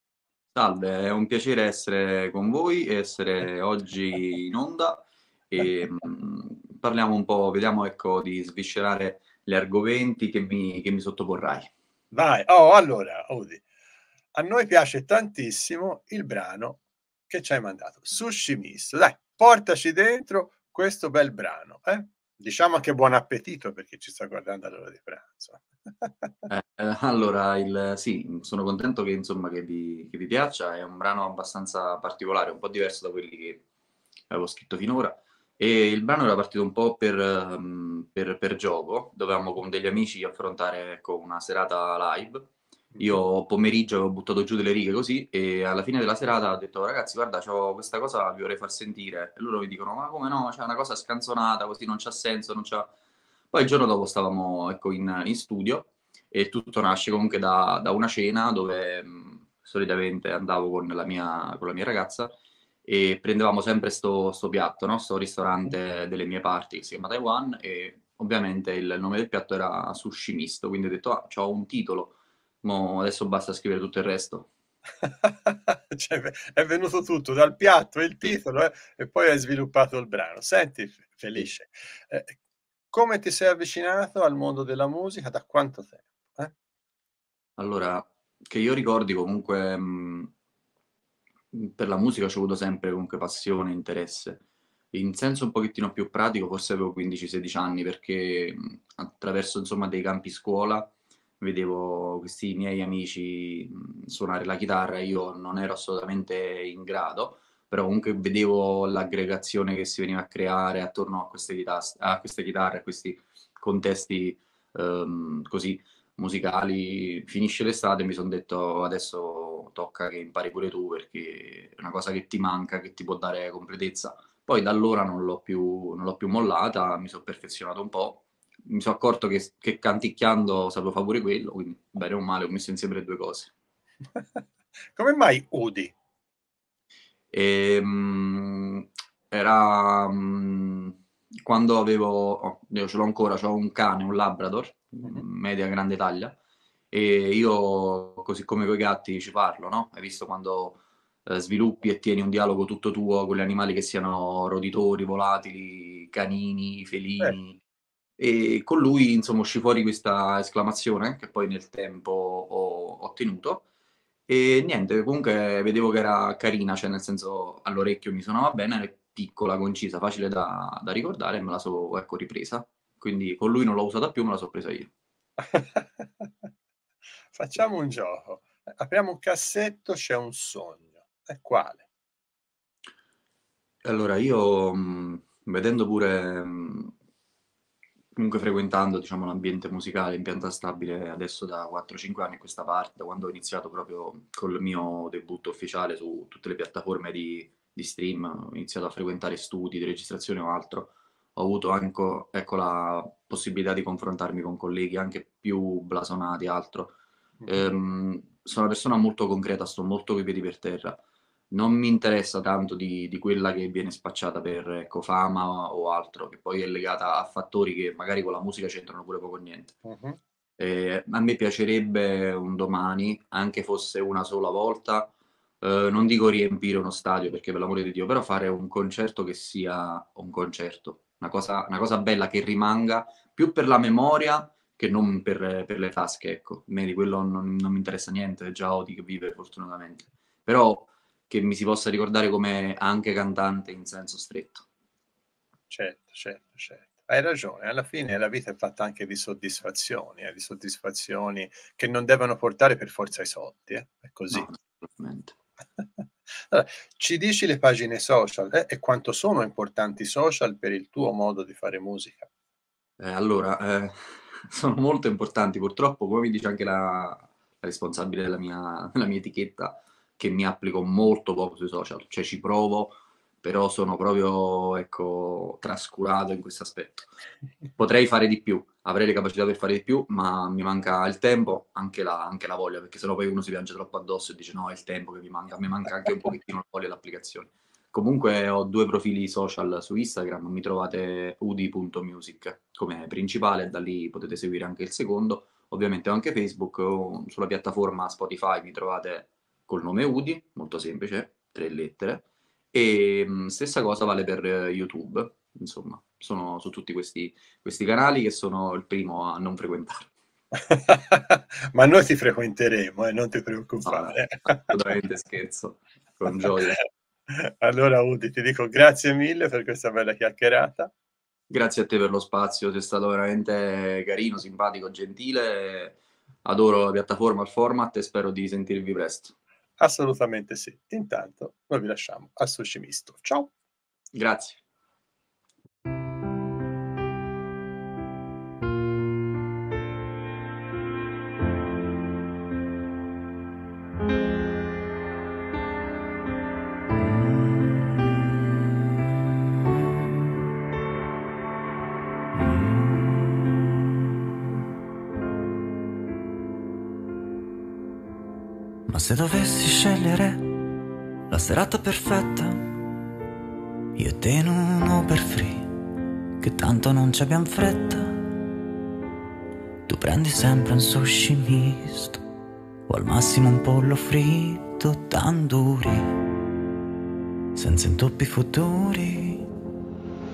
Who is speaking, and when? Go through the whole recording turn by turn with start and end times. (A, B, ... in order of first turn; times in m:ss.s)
0:00.6-0:11.7 A
0:12.1-0:13.6 B
0:14.3-0:26.1 B
0:26.5-0:33.6 A
0:34.3-0:52.9 A
0:53.5-1:02.3 A
1:02.9-1:14.5 A
1:15.2-1:22.4 B
1:22.9-1:26.5 B
1:27.6-1:30.3 A
1:31.5-1:34.4 A
1:34.9-2:13.5 A
2:15.0-2:15.9 B
2:17.3-2:26.4 A
2:26.9-2:37.6 A
2:38.2-2:43.7 A
2:44.3-2:54.9 A
2:55.4-2:56.3 B
2:57.3-3:01.9 B
3:03.8-3:06.9 A
3:08.2-3:31.0 A
3:31.5-3:39.8 A
3:39.8-3:40.2 B
3:40.6-4:04.6 A
4:05.7-4:14.5 B
4:14.3-4:15.4 A
4:16.5-4:22.3 B
4:23.0-4:37.1 A
4:37.8-5:10.1 A
5:10.6-5:14.8 B
5:13.8-5:16.8 A
5:16.4-5:16.8 B
5:17.3-5:20.9 B
5:21.5-5:29.4 A
5:29.8-5:33.5 B
5:34.1-5:34.6 A
5:58.9-6:00.5 C
6:01.3-6:02.7 C
6:04.0-6:05.7 C
6:06.4-6:08.1 C
6:09.9-6:12.2 C
6:12.9-6:16.2 C
6:17.6-6:19.5 C